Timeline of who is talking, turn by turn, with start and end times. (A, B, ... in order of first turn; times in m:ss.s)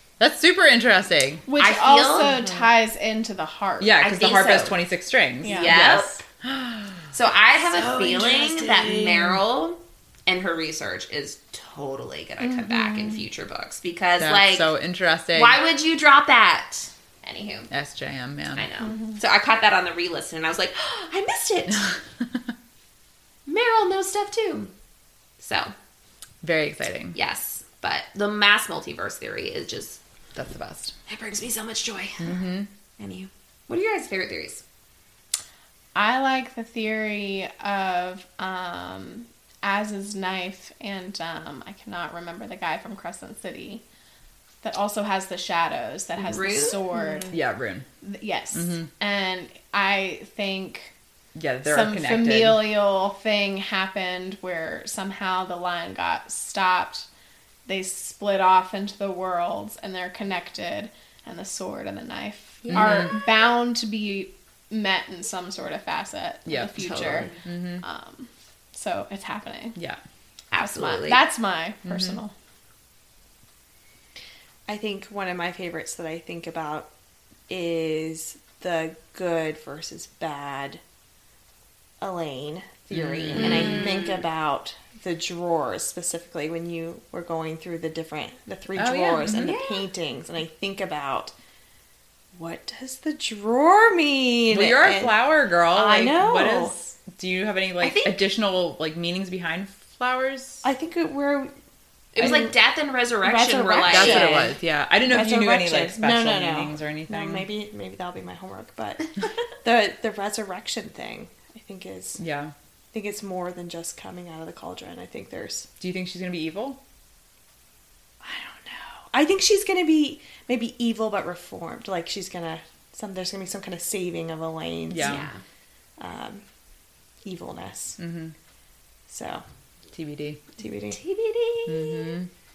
0:00.2-0:01.4 A
0:01.5-0:04.0 B
0:01.6-0:02.5 C
0:03.8-0:07.1 A
0:04.0-0:04.8 C
0:05.4-0:06.2 C
0:05.4-0:05.8 B
0:07.1-0:14.7 C
0:07.7-0:09.4 A
0:12.4-0:13.2 B
0:14.2-0:15.6 A
0:15.3-0:17.7 C
0:17.7-0:18.6 A
0:18.6-0:21.9 C
0:21.7-0:22.4 A
0:23.5-0:24.7 C
0:25.4-0:25.7 C
0:26.4-0:27.2 A
0:27.1-0:30.0 C
0:30.4-0:31.0 A
0:31.1-0:32.4 C
0:32.2-0:32.7 A
0:33.0-0:34.6 C
0:36.0-0:43.8 B
0:44.6-0:47.4 B
0:46.2-0:46.8 C
0:47.3-0:47.9 A
0:48.0-0:50.9 B
0:48.5-0:48.9 A
0:51.4-0:52.6 A
0:51.6-0:57.1 B
0:57.7-1:09.8 B
1:02.7-1:03.2 A
1:06.5-1:07.8 A
1:06.8-1:07.3 C
1:10.5-1:11.2 C
1:10.6-1:12.3 B
1:11.9-1:12.2 A
1:14.7-1:16.9 D
1:17.5-1:20.8 D
1:22.0-1:31.3 D
1:22.9-1:23.9 A
1:23.4-1:24.2 C
1:28.8-1:29.6 A
1:29.3-1:29.9 C
1:32.3-1:35.2 D
1:34.5-1:40.6 A
1:35.7-1:36.7 D
1:37.8-1:38.2 C
1:40.6-1:41.5 D
1:42.2-1:44.5 C
1:42.2-1:42.6 D
1:43.2-1:44.5 D
1:43.9-1:47.5 A
1:45.1-1:52.2 D
1:52.2-1:52.5 A
1:52.9-1:55.7 D
1:55.8-1:56.8 A
1:58.2-2:05.3 D
2:04.9-2:05.3 A
2:05.0-2:05.4 C
2:06.0-2:06.4 D
2:07.2-2:08.0 D
2:08.0-2:08.4 A
2:09.1-2:09.4 D
2:09.9-2:10.4 A
2:10.6-2:11.0 D
2:10.9-2:12.2 C
2:11.7-2:12.3 A